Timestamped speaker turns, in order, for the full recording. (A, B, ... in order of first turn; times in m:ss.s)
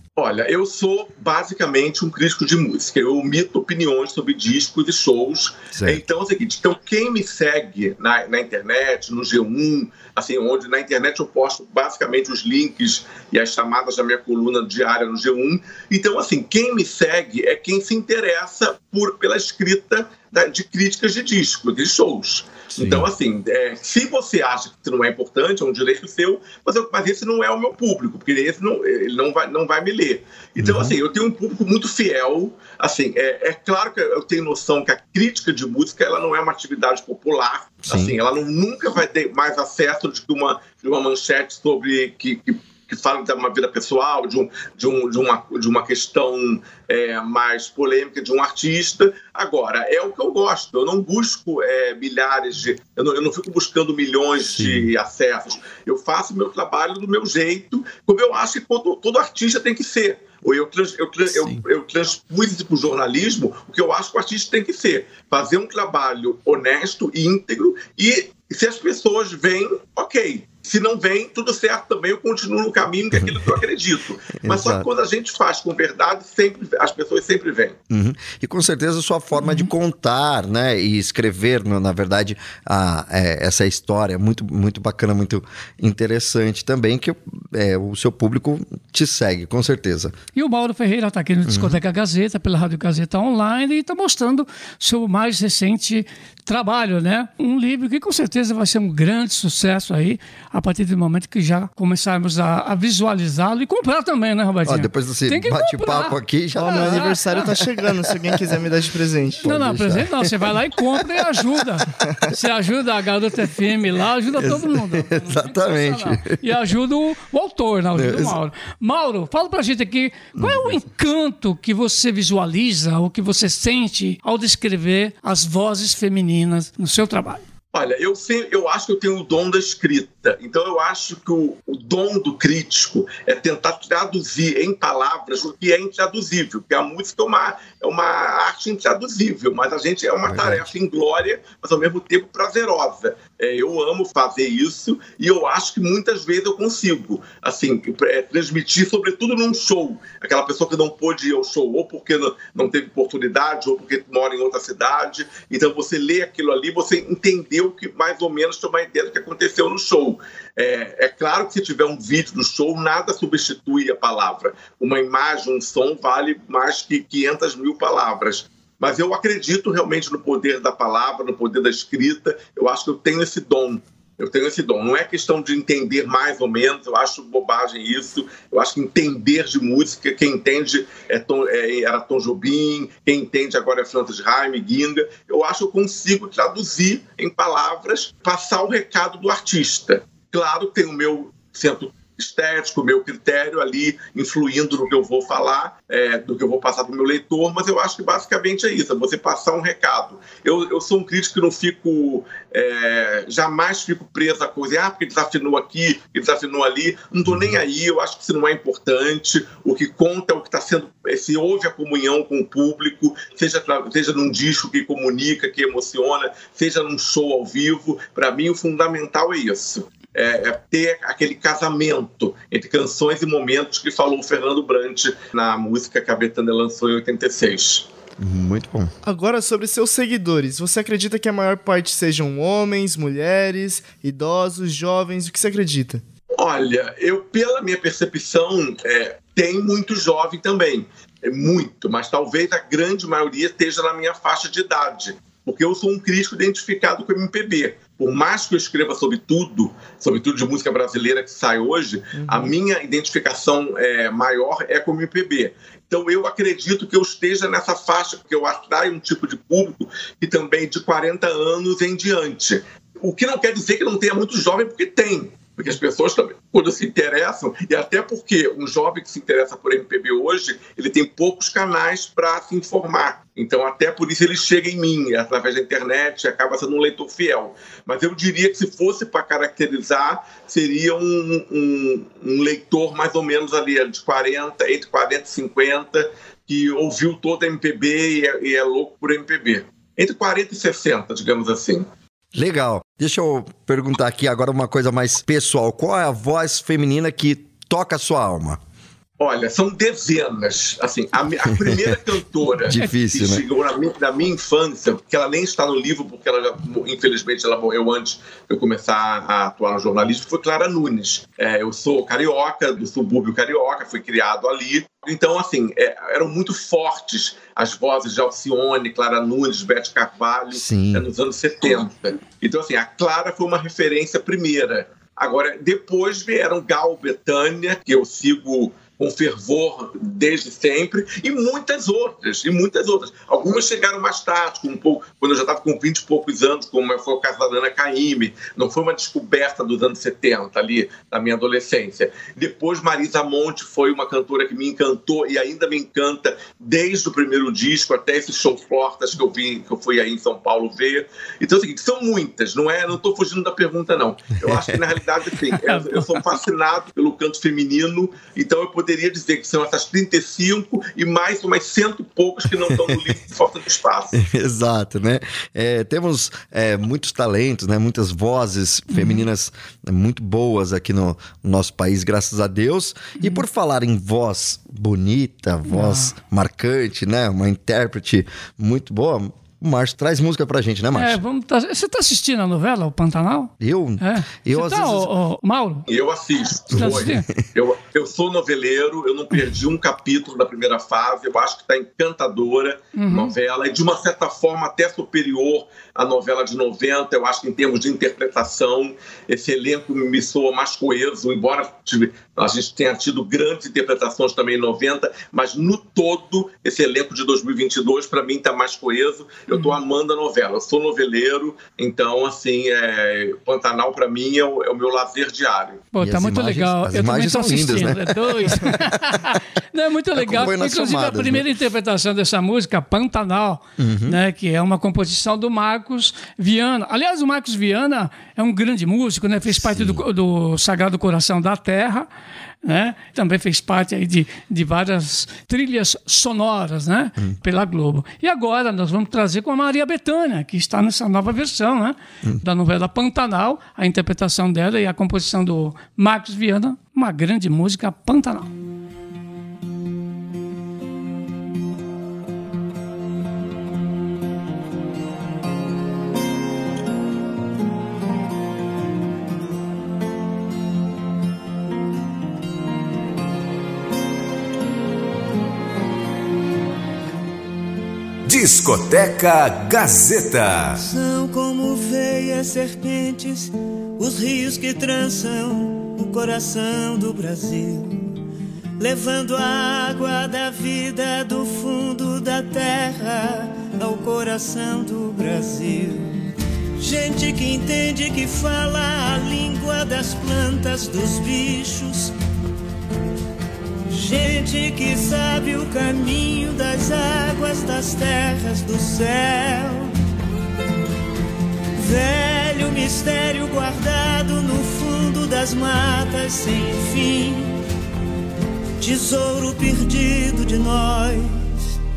0:00.2-1:17.8 A
0:05.7-0:06.0 B
0:22.7-0:23.1 B
0:30.6-0:31.0 B
0:37.8-0:38.2 B
0:54.5-0:54.9 B
1:01.3-1:01.6 B
1:13.1-1:13.5 B
1:14.4-1:14.9 B
1:17.9-1:30.1 B
1:19.4-1:19.7 C
1:30.4-1:46.2 C
1:31.4-1:31.8 B
1:44.6-1:47.6 B
1:46.6-1:49.6 D
1:46.7-1:47.5 C
1:49.4-1:51.6 B
1:49.4-2:07.4 C
1:54.3-1:56.4 B
1:57.9-1:58.4 B
2:00.4-2:00.8 B
2:07.7-3:47.9 A
2:20.3-2:20.7 B
3:27.3-3:27.6 B
3:48.2-3:48.9 B
3:49.0-3:56.0 D
3:56.4-4:51.9 A
4:12.2-4:12.5 D
4:52.3-4:58.6 B
4:59.2-6:04.2 A
5:01.6-5:01.9 B
5:02.6-5:03.4 B
5:20.5-5:21.1 B
5:54.4-5:54.8 B
5:55.6-5:56.2 C
6:02.6-6:02.9 B
6:04.1-6:21.2 B
6:08.9-6:09.3 C
6:13.2-6:13.4 C
6:15.7-6:16.1 C
6:20.9-6:25.9 C
6:23.6-6:25.1 B
6:25.9-6:55.8 A
6:26.7-6:27.2 C
6:26.7-6:27.2 B
6:33.0-6:33.3 C
6:55.9-7:12.1 C
6:56.0-6:59.4 B
7:00.1-7:01.5 B
7:03.8-7:04.2 B
7:09.5-7:10.0 B
7:12.6-7:28.5 C
7:48.2-7:50.8 E
7:50.8-7:58.1 F
7:58.8-8:06.1 F
8:06.8-8:12.1 F
8:13.9-8:19.9 F
8:21.8-8:27.6 F
8:28.8-8:31.6 F